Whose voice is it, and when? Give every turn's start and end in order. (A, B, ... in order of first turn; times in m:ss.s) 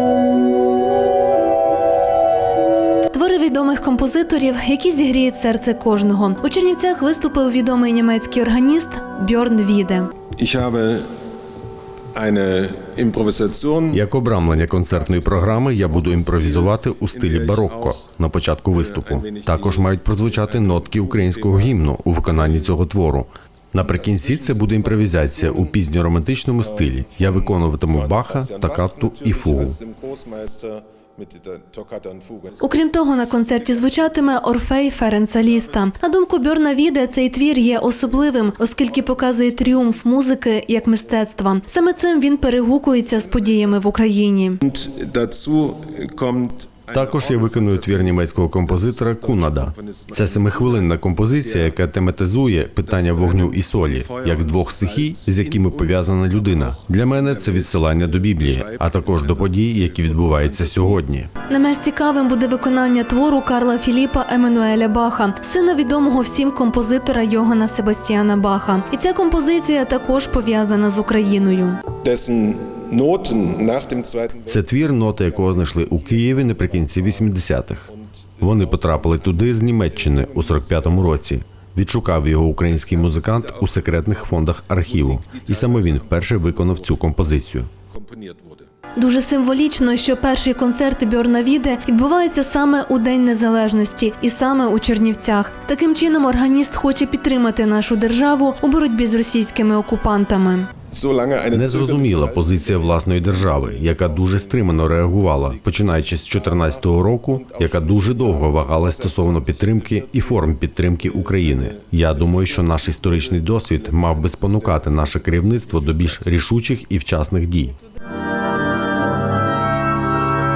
0:03.1-0:10.1 A
0:10.3-0:11.1 B
0:12.1-0:18.0 B
0:13.9-0:29.8 C
0:18.7-0:22.8 B
0:23.8-0:25.8 B
0:26.6-0:35.9 B
0:32.6-0:44.6 A
0:37.6-0:40.1 B
0:40.8-0:41.5 B
0:43.0-0:43.8 B
0:44.6-0:51.8 B
0:46.9-1:01.3 C
0:52.8-1:01.0 B
1:01.5-1:11.8 A
1:12.0-1:21.2 B
1:14.5-1:17.9 C
1:18.4-1:27.7 C
1:22.6-1:27.4 B
1:27.9-1:28.7 B
1:29.0-1:40.7 A
1:40.9-1:56.3 B
1:41.5-1:57.8 C